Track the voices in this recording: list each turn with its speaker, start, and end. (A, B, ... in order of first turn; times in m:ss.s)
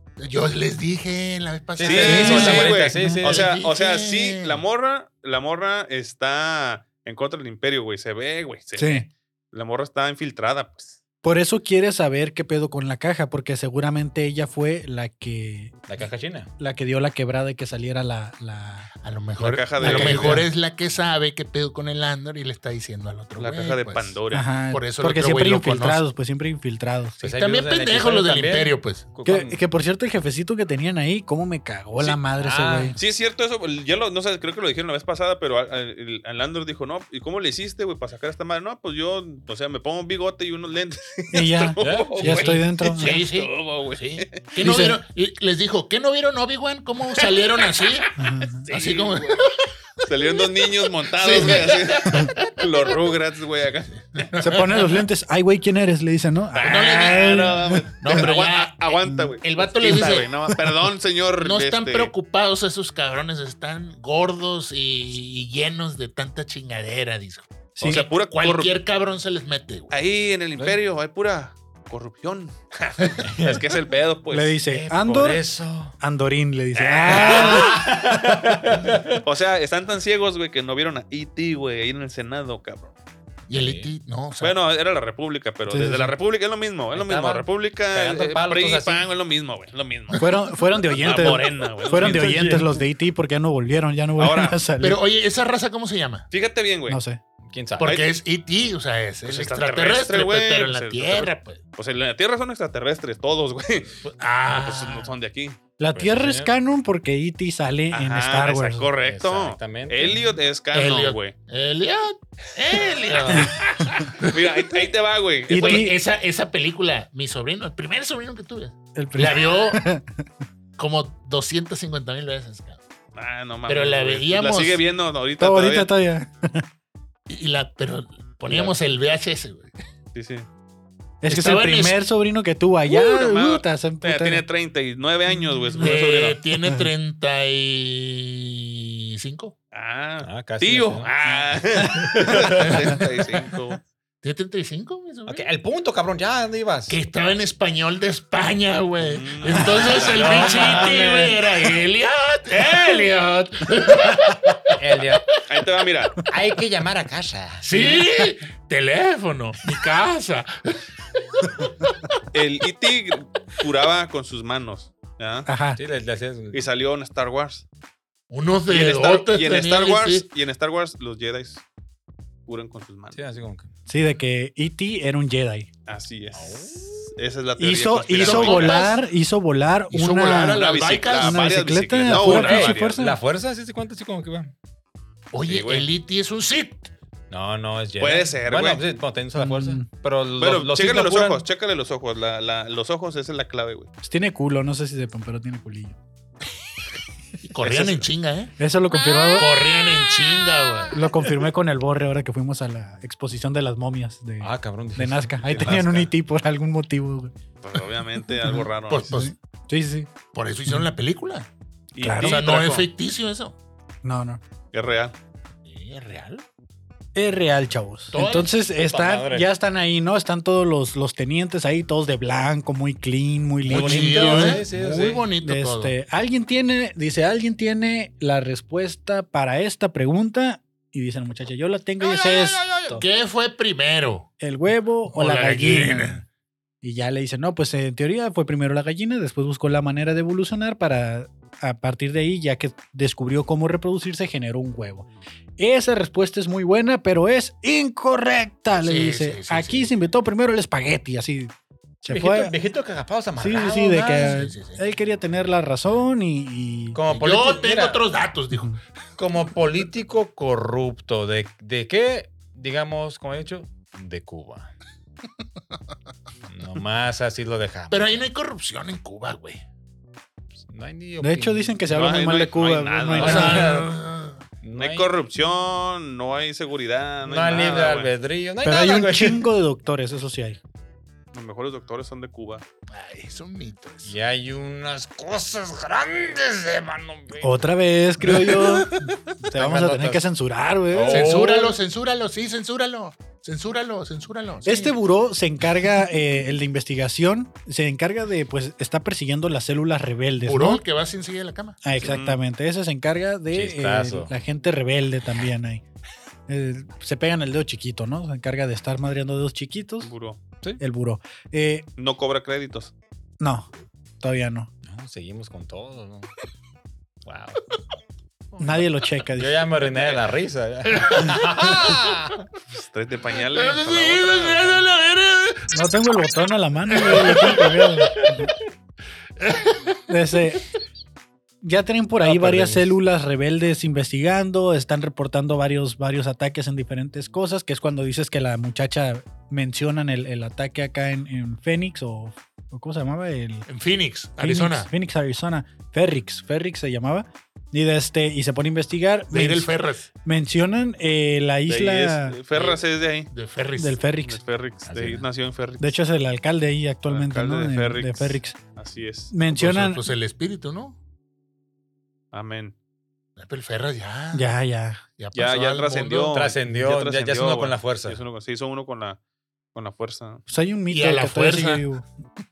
0:00.2-0:04.6 A
0:01.8-0:03.4 B
0:01.8-0:11.0 C
0:02.0-0:03.2 D
0:08.8-0:09.1 D
0:11.2-0:15.8 D
0:15.9-0:16.5 B
0:16.6-0:18.9 D
0:19.0-0:24.2 A
0:19.4-0:20.4 C
0:19.8-0:20.5 D
0:23.4-0:24.5 C
0:24.3-0:27.2 D
0:24.7-0:26.0 A
0:27.2-0:29.0 A
0:27.2-0:29.6 B
0:29.2-0:33.0 D
0:32.4-0:33.0 B
0:33.0-0:44.5 C
0:41.3-0:43.2 D
0:41.8-0:42.6 B
0:42.4-0:48.1 A
0:44.6-0:45.0 D
0:48.2-0:48.7 D
0:48.6-0:49.4 C
0:48.7-0:49.6 A
0:50.0-0:54.2 C
0:51.1-0:52.5 A
0:54.1-0:55.0 A
0:54.4-0:58.3 D
0:56.5-1:02.1 C
0:56.6-0:58.9 A
0:59.0-0:59.3 D
0:59.4-1:00.3 A
1:00.5-1:00.8 D
1:01.4-1:09.9 A
1:07.8-1:08.0 D
1:07.8-1:08.7 C
1:09.9-1:14.6 C
1:13.2-1:13.6 B
1:14.3-1:15.4 D
1:14.7-1:16.0 B
1:16.0-1:17.8 D
1:16.7-1:17.7 C
1:17.1-1:19.2 B
1:19.2-1:22.9 C
1:23.5-1:24.5 A
1:23.5-1:23.9 B
1:24.4-1:30.3 C
1:25.7-1:26.1 D
1:26.9-1:29.0 B
1:30.2-1:35.0 D
1:31.0-1:32.3 C
1:31.9-1:32.8 B
1:34.2-1:34.6 C
1:34.8-1:36.3 A
1:36.3-1:37.0 C
1:36.9-1:37.2 D
1:37.4-1:38.0 B
1:37.8-1:41.6 A
1:37.8-1:38.1 C
1:39.2-1:43.9 C
1:44.0-1:45.1 A
1:44.5-1:45.6 C
1:45.8-1:48.9 D
1:45.9-1:46.5 B
1:47.9-1:51.3 C
1:49.0-1:50.3 B
1:50.7-1:54.9 A
1:52.7-1:53.5 C
1:54.2-1:55.9 C
1:55.5-1:55.9 D
1:55.5-1:59.8 A
1:58.9-2:00.2 D
2:00.8-2:02.8 A
2:03.1-2:05.9 C
2:03.7-2:04.8 A
2:05.4-2:06.6 D
2:07.3-2:09.7 A
2:10.1-2:10.4 C
2:11.2-2:14.4 D
2:11.3-2:12.0 A
2:12.9-2:16.4 C
2:15.3-2:15.7 D
2:15.8-2:19.5 A
2:19.7-2:23.8 C
2:20.2-2:21.1 B
2:21.9-2:22.7 B
2:22.6-2:23.0 A
2:24.2-2:25.4 A
2:25.2-2:27.0 B
2:26.9-2:34.7 A
2:29.0-2:30.9 C
2:29.9-2:31.4 B
2:34.8-2:35.2 B
2:35.5-2:36.2 C
2:36.3-2:37.9 B
2:37.6-2:40.6 A
2:42.3-2:45.5 C
2:45.4-2:45.8 D
2:45.8-2:46.6 B
2:46.5-2:47.6 C
2:48.3-2:50.2 A
2:48.7-2:51.6 C
2:52.5-2:53.2 C
2:53.1-2:53.7 B
2:53.9-2:55.7 D
2:55.9-2:58.9 C
2:56.3-2:57.0 B
2:57.6-3:03.2 D
2:58.2-2:59.0 A
2:59.9-3:01.4 A
3:00.5-3:03.0 C
3:02.1-3:04.5 B
3:05.3-3:06.9 A
3:05.4-3:05.9 C
3:07.3-3:11.4 B
3:08.0-3:08.9 C
3:09.4-3:09.8 D
3:10.4-3:13.9 C
3:14.0-3:16.0 D
3:17.4-3:18.5 A
3:17.6-3:18.1 C
3:18.6-3:19.5 D
3:19.0-3:19.4 B
3:19.3-3:21.0 A
3:20.9-3:27.3 D
3:24.4-3:26.1 B
3:25.5-3:26.0 C
3:27.6-3:29.2 C
3:28.4-3:30.1 D
3:28.9-3:29.3 A
3:30.3-3:31.5 A
3:31.9-3:32.9 C
3:32.0-3:32.4 D
3:32.2-3:33.5 A
3:34.0-3:34.4 D
3:34.7-3:35.1 C
3:35.6-3:36.4 A
3:37.1-3:44.7 D
3:38.1-3:38.5 A
3:38.8-3:39.5 B
3:43.6-3:45.2 B
3:43.6-3:45.9 A
3:45.4-3:53.0 D
3:52.0-3:53.0 B
3:52.9-3:54.3 A
3:54.4-3:56.2 D
3:55.1-3:56.2 A
3:56.8-4:05.1 D
4:05.6-4:12.5 D
4:08.8-4:09.9 A
4:12.1-4:14.4 B
4:13.4-4:17.0 D
4:14.0-4:14.8 A
4:16.9-4:18.0 B
4:17.1-4:18.8 A
4:18.5-4:18.8 D
4:19.2-4:24.7 B
4:26.5-4:28.1 B
4:27.9-4:29.6 A
4:30.6-4:31.8 B
4:31.2-4:33.9 D
4:31.9-4:33.7 C
4:33.1-4:33.9 B
4:33.2-4:34.4 A
4:34.6-4:35.1 B
4:34.7-4:38.1 C
4:37.2-4:39.5 B
4:38.6-4:40.6 D
4:41.3-4:42.6 C
4:42.9-4:44.1 A
4:44.0-4:47.7 B
4:47.4-4:51.6 D
4:48.3-4:49.1 A
4:49.6-4:50.2 B
4:50.9-4:51.7 B
4:51.1-4:55.0 A
4:54.6-5:00.8 D
5:00.4-5:01.8 A
5:01.8-5:05.8 D
5:02.0-5:02.4 C
5:03.5-5:04.3 B
5:06.5-5:10.1 D
5:10.0-5:10.4 C
5:10.8-5:11.9 D
5:12.0-5:12.9 C
5:13.4-5:13.7 D
5:14.2-5:14.7 D
5:14.8-5:16.3 B
5:17.2-5:17.6 B
5:18.5-5:22.4 B
5:18.6-5:19.7 D
5:20.9-5:22.0 A
5:22.7-5:24.8 C
5:23.3-5:25.7 A
5:25.7-5:28.5 D
5:26.9-5:27.9 A
5:29.4-5:30.0 A
5:30.1-5:30.6 D
5:31.6-5:43.7 D
5:32.2-5:32.9 B
5:43.7-5:44.9 A
5:44.4-5:49.7 D
5:49.3-5:50.1 A
5:50.2-5:52.4 D
5:51.7-5:53.3 C
5:52.5-5:52.8 A
5:53.3-5:54.0 A
5:53.8-5:54.4 D
5:54.2-5:56.0 C
5:54.8-5:55.2 B
5:55.8-5:58.6 D
5:57.1-5:59.3 C
5:59.3-6:00.0 D
5:59.5-6:01.0 A
6:02.3-6:02.7 C
6:03.4-6:04.5 A
6:04.3-6:05.0 D
6:05.2-6:06.5 A
6:05.3-6:09.2 C
6:06.3-6:08.2 B
6:09.7-6:10.4 C
6:10.5-6:12.0 D
6:10.9-6:11.8 A